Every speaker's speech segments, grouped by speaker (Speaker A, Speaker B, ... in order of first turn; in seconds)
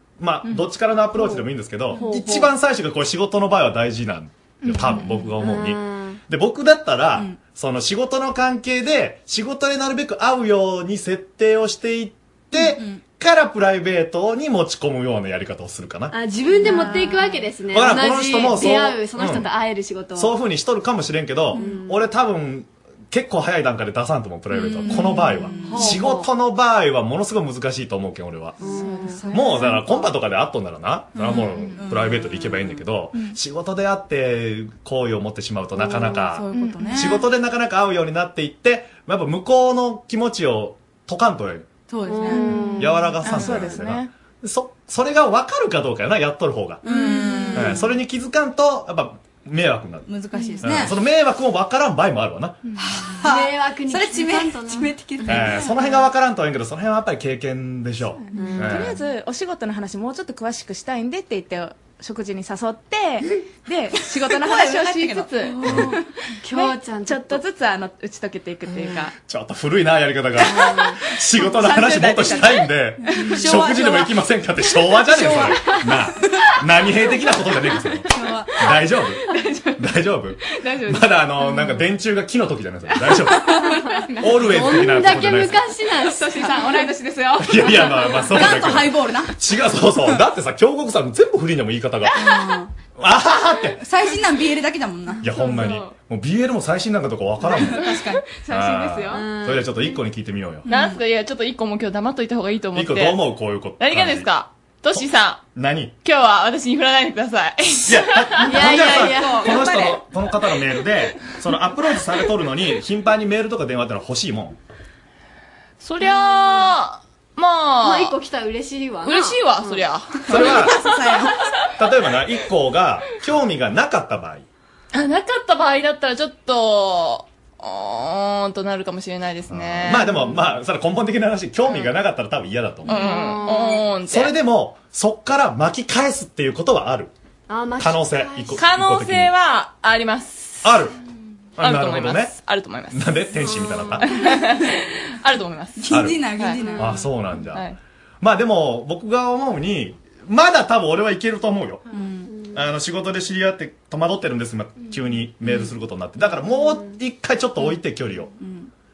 Speaker A: 0.2-16.1, 17.7-19.5, 20.1-28.6, 29.3-41.7, 42.8-46.8, 47.5-50.1, 50.6-52.6, 55.3-59.0, 69.2-78.1, 78.6-79.2, 79.8-83.5, 84.2-85.7, 87.4-92.3, 93.0-93.8, 95.2-97.9, 98.5-100.7, 102.7-104.3, 104.9-105.9, 107.8-114.6, 120.3-120.8, 121.8-124.5, 129.5-133.0, 134.1-137.1, 137.8-139.3, 140.6-140.9, 141.6-142.4, 142.9-144.1, 145.9-147.7, 148.2-151.8, 152.5-158.3
Speaker B: 0.4-1.3, 1.9-2.3, 4.7-5.3, 7.2-7.4, 12.5-13.0, 16.7-16.9, 21.5-21.8, 24.7-25.9, 28.6-29.8, 31.1-32.6, 36.4-37.2, 41.9-42.7, 46.8-47.9, 50.1-51.0, 52.8-55.8, 64.1-66.0, 73.1-74.0, 78.1-78.7, 88.2-89.4, 92.2-92.7, 93.8-95.3, 97.4-98.3, 100.7-101.0, 120.3-121.4, 145.8-147.1, 151.9-152.3, 158.3-158.7
Speaker C: 1.1-2.5, 4.8-6.2, 16.1-20.4, 21.5-22.1, 24.5-26.3, 28.6-30.1, 35.7-36.3, 42.0-43.3, 53.2-55.4, 58.3-58.8, 65.6-67.4, 68.7-69.0, 70.4-71.0, 83.7-86.8, 99.1-100.0, 108.4-109.9, 117.8-120.0, 130.0-130.5, 132.8-133.9, 137.5-138.7, 143.3-144.2, 146.6-146.9, 152.3-152.6, 156.3-157.0
Speaker D: 16.6-17.2, 36.4-37.2, 42.3-44.1, 46.9-47.8, 50.3-50.7, 58.3-66.0, 66.6-69.1, 71.4-74.1, 75.1-75.7, 79.3-79.8, 80.6-81.6, 83.5-84.5, 86.1-88.2, 95.3-95.7, 97.7-99.2
Speaker E: 100.7-103.2, 103.8-105.4, 106.0-108.3, 115.8-118.2, 119.0-120.3, 124.9-130.1, 132.9-134.3, 138.6-140.7, 141.6-143.0, 144.2-146.6